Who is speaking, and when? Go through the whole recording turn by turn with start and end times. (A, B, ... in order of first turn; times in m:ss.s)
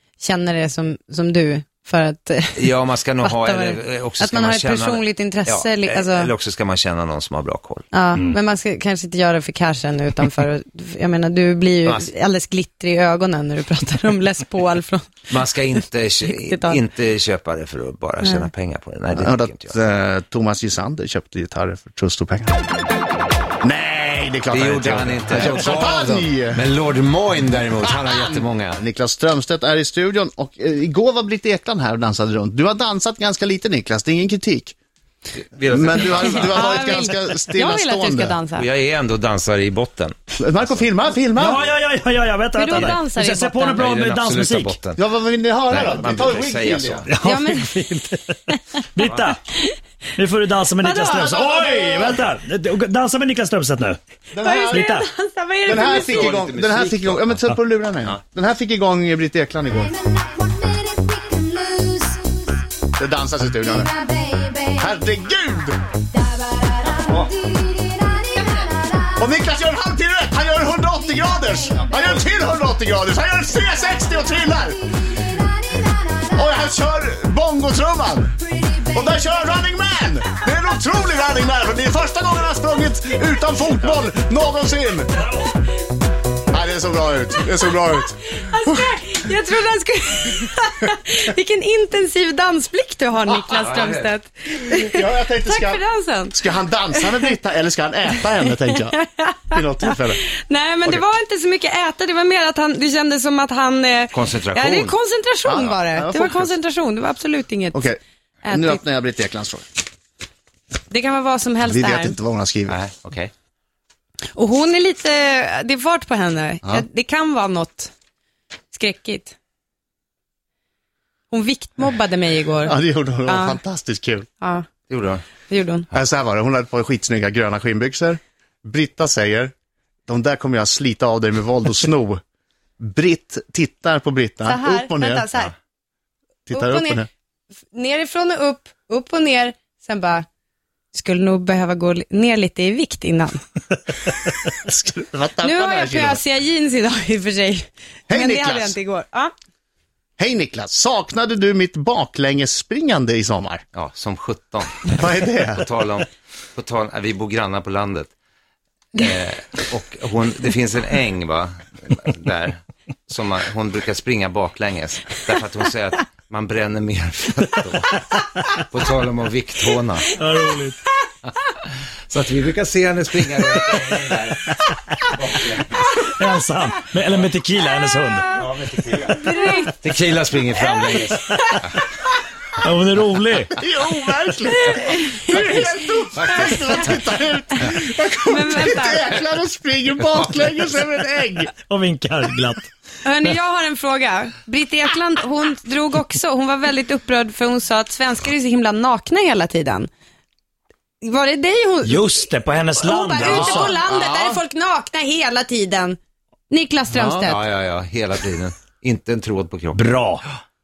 0:00.2-0:06.3 A
0:02.5-0:07.9 B
0:07.9-0:15.2 A
0:11.8-0:12.1 B
0:15.3-0:19.8 B
0:16.3-0:16.8 A
0:18.2-0:18.5 A
0:19.2-0:22.6 C
0:23.6-0:26.6 C
0:24.5-0:28.8 B
0:27.8-0:34.7 C
0:35.3-0:37.1 B
0:35.7-0:38.4 C
0:36.3-0:38.7 A
0:38.5-0:40.2 B
0:40.4-0:41.6 C
0:41.3-0:44.8 D
0:42.5-0:43.8 A
0:43.7-0:45.0 B
0:45.0-0:47.1 C
0:45.7-0:47.1 B
0:47.1-0:49.4 D
0:47.2-0:47.9 A
0:50.2-0:54.0 D
0:50.8-0:51.4 A
0:51.4-0:52.1 C
0:54.3-0:54.9 C
0:54.4-0:56.3 A
0:54.7-0:55.0 D
0:55.6-1:00.4 C
0:55.7-0:57.4 B
1:01.7-1:02.1 C
1:03.0-1:05.8 C
1:06.8-1:15.3 C
1:16.1-1:25.1 C
1:26.5-1:28.9 C
1:28.4-1:36.4 A
1:33.5-1:34.1 B
1:34.6-1:39.0 C
1:38.8-1:47.9 A
1:39.5-1:40.2 C
1:44.1-1:44.9 B
1:45.5-1:46.5 C
1:47.7-1:49.7 C
1:48.4-1:48.8 A
1:50.9-1:52.2 A
1:51.6-1:52.8 C
1:52.7-1:53.3 B
1:54.3-1:57.9 A
1:58.7-1:59.3 A
2:01.3-2:02.8 A
2:02.6-2:04.3 C
2:03.3-2:03.6 A
2:04.4-2:04.7 A
2:04.9-2:05.2 B
2:05.5-2:05.9 A
2:05.9-2:09.5 C
2:10.1-2:12.2 C
2:12.8-2:15.3 C
2:14.4-2:15.5 A
2:16.5-2:17.1 C
2:16.5-2:17.0 A
2:17.7-2:20.2 A
2:20.9-2:23.4 A
2:24.6-2:26.2 C
2:25.4-2:29.3 A
2:28.1-2:28.8 C
2:30.2-2:33.6 C
2:33.7-2:38.1 B
2:34.9-2:35.7 C
2:38.9-2:48.0 B
2:48.5-2:50.1 B
2:50.1-2:50.8 D
2:51.7-2:55.9 B
2:56.0-2:58.3 D
2:58.3-3:01.8 B
2:59.1-2:59.8 A
3:00.8-3:01.6 A
3:02.6-3:03.6 D
3:03.5-3:11.5 C
3:04.5-3:06.9 A
3:07.7-3:09.0 A
3:11.6-3:12.7 D
3:13.0-3:19.9 A
3:21.0-3:22.3 A
3:21.8-3:23.8 D
3:22.8-3:26.0 A
3:23.3-3:24.4 C
3:26.5-3:27.4 A
3:26.9-3:29.8 B
3:29.7-3:30.2 D